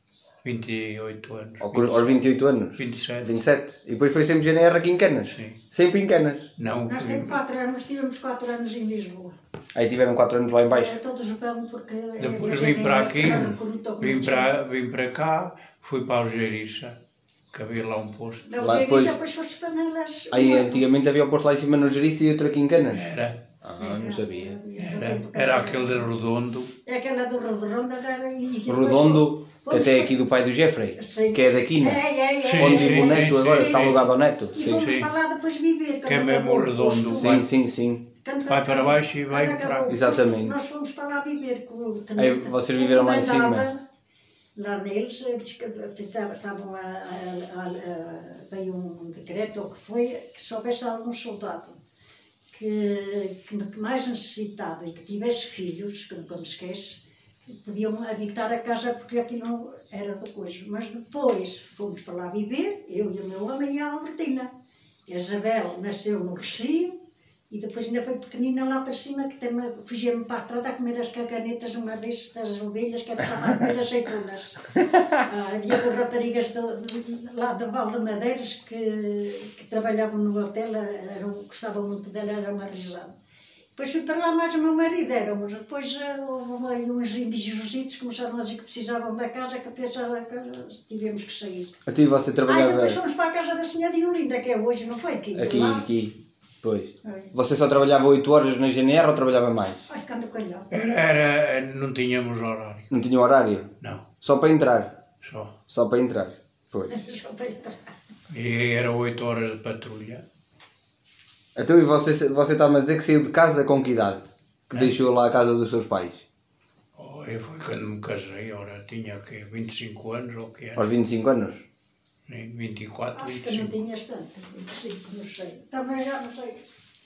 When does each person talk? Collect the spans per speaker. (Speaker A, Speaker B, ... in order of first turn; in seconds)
Speaker A: 0.4-2.2, 2.8-3.3, 5.3-5.6, 6.6-7.4, 12.2-16.9, 17.5-18.4, 22.9-23.4, 24.8-26.7, 32.5-34.0, 34.8-35.1, 36.0-37.4, 38.5-39.9, 100.7-102.9, 105.2-105.5, 108.3-110.2, 117.0-120.8, 122.3-123.7
Speaker B: 1.6-6.5, 9.7-10.9, 18.6-19.1, 20.3-23.0, 23.6-24.5, 28.7-32.0, 32.5-34.9, 37.1-38.0, 39.9-40.5, 42.2-43.7, 91.8-93.0, 95.3-99.8, 102.9-103.7, 104.2-105.0, 105.7-106.9, 111.5-116.2, 120.8-121.6
Speaker C: 6.9-9.3, 10.7-14.5, 18.4-20.8, 23.8-26.1, 26.9-30.2, 30.9-37.4, 38.2-43.8, 44.5-51.8, 52.5-64.5, 65.1-67.0, 67.5-83.1, 83.8-91.7, 92.5-95.8, 97.0-97.3, 99.9-100.7, 106.9-107.8, 123.2-126.6